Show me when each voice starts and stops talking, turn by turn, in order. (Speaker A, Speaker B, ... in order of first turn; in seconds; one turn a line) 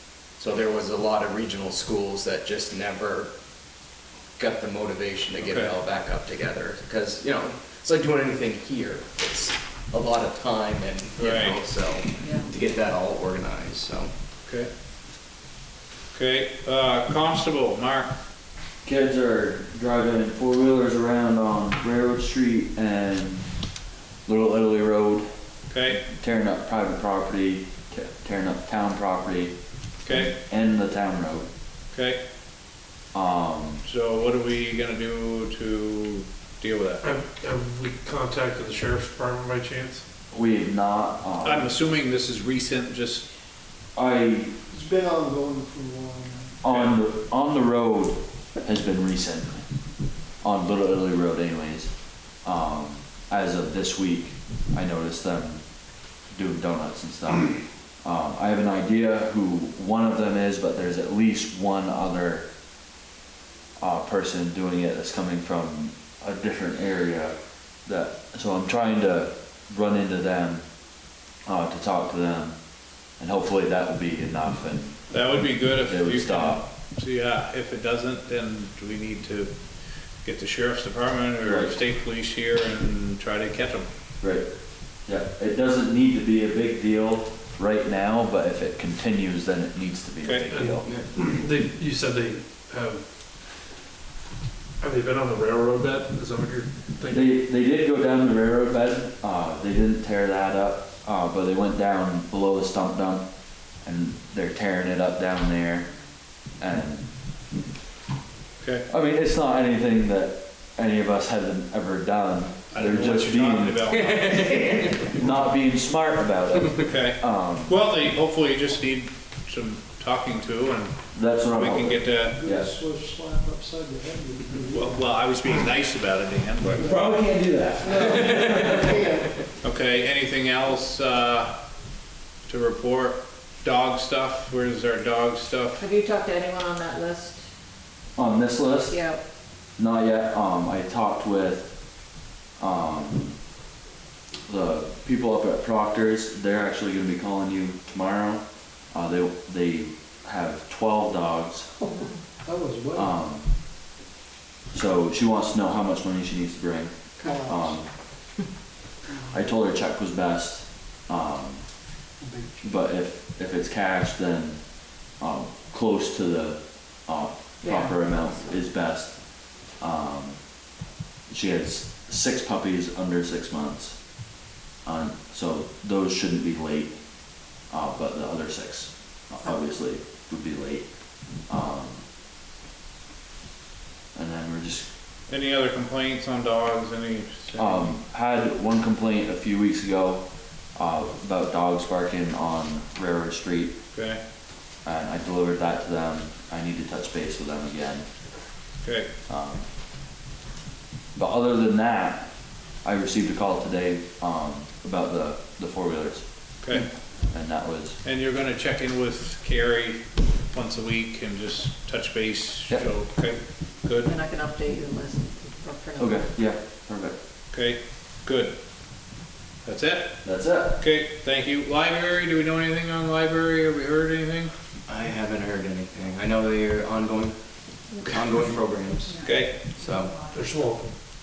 Speaker A: 0.4-3.3
Speaker A: 4.4-14.1
Speaker B: 5.4-5.7
Speaker B: 11.2-11.6
Speaker C: 12.2-12.5
Speaker B: 16.1-18.1
Speaker D: 18.8-23.5
Speaker D: 24.3-25.3
Speaker B: 25.7-26.0
Speaker D: 26.0-29.6
Speaker B: 30.0-30.3
Speaker D: 30.1-31.5
Speaker B: 31.9-32.2
Speaker D: 33.1-33.8
Speaker B: 33.8-37.0
Speaker E: 37.0-40.0
Speaker D: 40.3-41.7
Speaker B: 41.4-43.3
Speaker D: 44.0-44.6
Speaker F: 44.7-46.6
Speaker D: 46.6-49.6
Speaker B: 46.7-47.0
Speaker D: 50.4-51.9
Speaker D: 52.4-55.6
Speaker D: 56.3-62.5
Speaker D: 63.8-70.6
Speaker D: 71.5-72.6
Speaker D: 73.2-75.0
Speaker B: 75.1-79.5
Speaker D: 75.8-76.7
Speaker B: 80.2-83.9
Speaker D: 81.4-81.8
Speaker D: 84.2-84.5
Speaker D: 85.1-90.9
Speaker E: 90.5-93.0
Speaker A: 90.8-91.1
Speaker E: 94.8-97.3
Speaker D: 97.1-103.3
Speaker D: 103.8-105.9
Speaker D: 106.6-107.1
Speaker B: 108.6-108.9
Speaker D: 108.9-114.4
Speaker B: 112.7-115.1
Speaker A: 113.9-115.1
Speaker D: 115.0-117.8
Speaker B: 116.8-122.4
Speaker D: 121.1-122.7
Speaker F: 122.1-125.1
Speaker B: 124.7-126.8
Speaker D: 126.7-128.9
Speaker F: 126.8-127.2
Speaker F: 127.8-129.4
Speaker B: 129.6-131.6
Speaker B: 132.5-135.9
Speaker C: 135.8-137.4
Speaker D: 138.2-139.0
Speaker C: 138.9-139.2
Speaker D: 139.8-141.7
Speaker D: 142.6-143.4
Speaker D: 144.5-151.7
Speaker F: 151.8-153.1
Speaker D: 152.9-153.5
Speaker D: 154.7-157.0
Speaker C: 157.2-157.5
Speaker F: 157.2-157.8
Speaker D: 157.5-157.9
Speaker F: 159.1-159.5
Speaker D: 159.3-161.6
Speaker F: 162.2-162.8
Speaker D: 162.6-164.6
Speaker D: 165.2-169.2
Speaker C: 167.6-168.5
Speaker D: 169.8-170.4
Speaker D: 171.3-174.1
Speaker D: 174.8-177.0
Speaker D: 177.6-180.9
Speaker D: 181.5-182.0
Speaker D: 184.2-184.9
Speaker B: 185.3-187.9
Speaker D: 187.6-193.8
Speaker B: 193.9-194.2
Speaker D: 194.8-198.1
Speaker B: 198.8-199.1
Speaker D: 199.3-199.7
Speaker D: 201.2-202.3
Speaker D: 202.8-206.2
Speaker B: 206.6-206.9
Speaker D: 207.3-208.0
Speaker B: 208.0-214.1
Speaker C: 214.1-216.3
Speaker D: 216.0-217.2
Speaker B: 217.5-218.6
Speaker B: 219.7-220.2
Speaker D: 220.2-220.8
Speaker B: 220.8-224.5
Speaker A: 224.9-229.2
Speaker C: 229.1-230.5
Speaker B: 229.2-229.6
Speaker A: 229.8-230.1
Speaker E: 230.3-230.9